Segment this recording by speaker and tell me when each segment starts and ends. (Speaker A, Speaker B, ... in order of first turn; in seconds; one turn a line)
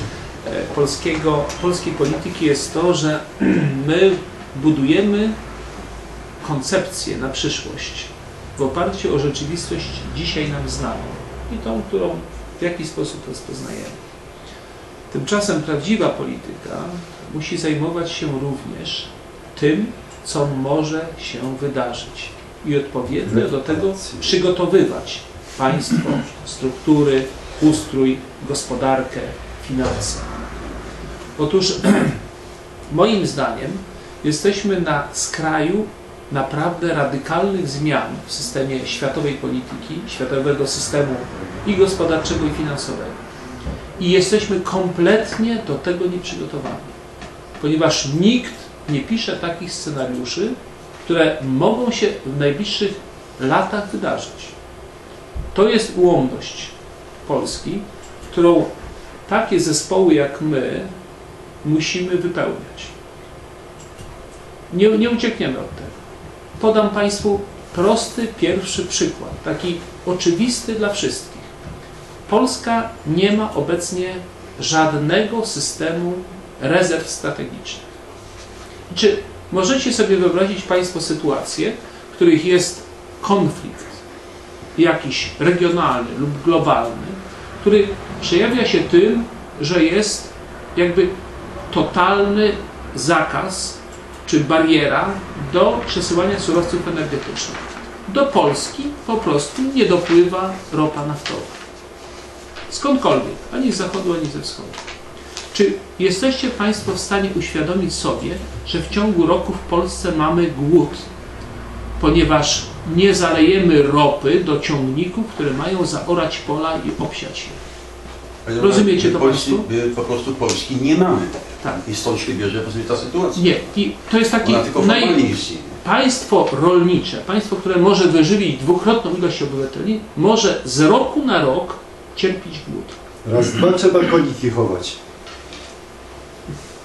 Speaker A: 0.4-5.4
Speaker A: 6.4-14.0
Speaker A: 15.1-30.4
Speaker B: 23.3-24.3
Speaker A: 31.4-32.2
Speaker A: 32.9-43.2
Speaker A: 44.0-47.0
Speaker A: 47.6-54.5
Speaker A: 55.5-58.7
Speaker A: 59.3-60.9
Speaker A: 61.6-62.9
Speaker A: 64.7-66.0
Speaker A: 66.6-71.5
Speaker A: 72.3-77.9
Speaker A: 78.9-84.0
Speaker A: 84.8-91.1
Speaker A: 91.7-101.6
Speaker A: 102.7-104.8
Speaker A: 105.5-111.1
Speaker A: 112.0-117.6
Speaker C: 118.5-123.6
Speaker A: 118.6-119.7
Speaker A: 123.3-133.0
Speaker C: 124.4-125.8
Speaker B: 133.2-135.0